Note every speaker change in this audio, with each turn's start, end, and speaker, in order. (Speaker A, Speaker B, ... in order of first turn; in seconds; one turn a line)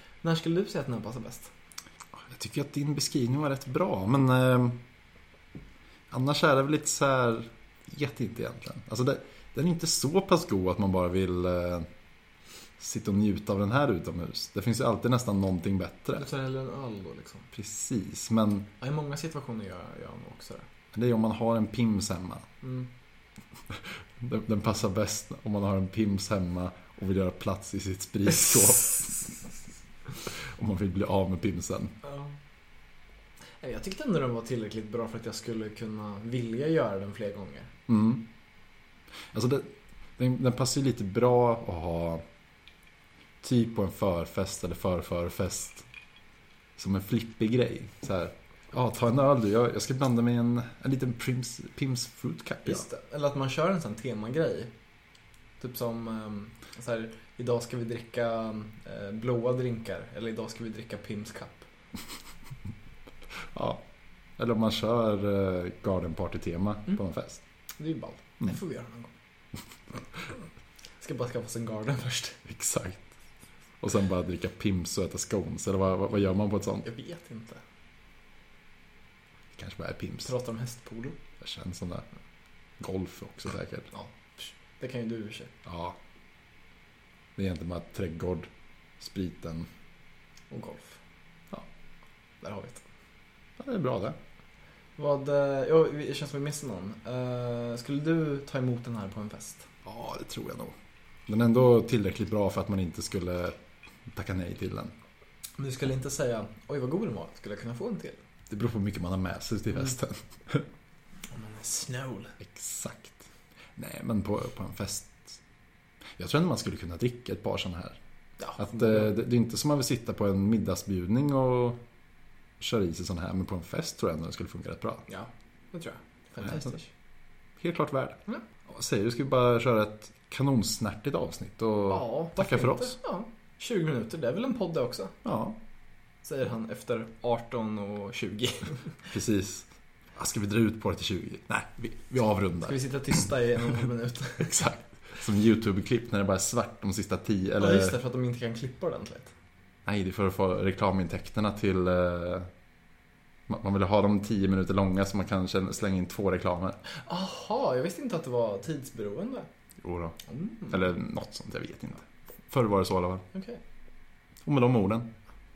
Speaker A: 0.2-1.5
Speaker B: 2.2-4.8
Speaker B: 6.1-11.9
Speaker B: 12.8-16.3
Speaker A: 16.2-17.5
Speaker B: 17.5-18.7
Speaker A: 18.8-20.7
Speaker B: 20.9-22.4
Speaker A: 22.6-22.9
Speaker B: 23.7-29.2
Speaker B: 30.2-32.0
Speaker A: 32.0-32.4
Speaker A: 33.6-37.7
Speaker B: 37.9-38.3
Speaker B: 39.3-42.2
Speaker B: 43.4-45.9
Speaker B: 46.8-52.9
Speaker A: 52.6-54.7
Speaker A: 55.6-61.7
Speaker B: 63.5-63.8
Speaker B: 64.4-67.4
Speaker A: 67.8-69.1
Speaker A: 71.0-72.4
Speaker B: 72.5-73.1
Speaker B: 73.8-76.9
Speaker A: 76.8-77.6
Speaker B: 79.5-80.3
Speaker A: 80.2-81.2
Speaker B: 81.4-82.1
Speaker B: 82.8-83.9
Speaker A: 83.9-85.5
Speaker B: 85.7-86.0
Speaker B: 87.4-88.5
Speaker B: 89.0-89.7
Speaker A: 90.5-91.0
Speaker A: 92.4-92.9
Speaker B: 93.6-94.2
Speaker A: 95.0-99.7
Speaker B: 99.8-100.7
Speaker B: 101.3-103.6
Speaker B: 104.1-104.9
Speaker A: 105.6-108.2
Speaker B: 108.5-110.7
Speaker A: 111.3-112.4
Speaker B: 112.4-115.4
Speaker B: 116.2-118.0
Speaker A: 118.4-119.2
Speaker B: 118.6-121.8
Speaker B: 122.6-125.1
Speaker A: 125.1-126.9
Speaker B: 127.6-133.0
Speaker A: 131.9-135.2
Speaker B: 135.2-135.6
Speaker A: 136.2-139.0
Speaker B: 139.1-142.8
Speaker A: 142.6-144.6
Speaker B: 144.4-148.0
Speaker A: 147.6-149.3
Speaker B: 149.9-152.5
Speaker B: 153.5-156.8
Speaker A: 156.9-159.5
Speaker B: 159.8-160.2
Speaker A: 160.3-160.8
Speaker B: 160.7-163.2
Speaker A: 163.3-163.6
Speaker B: 164.4-165.1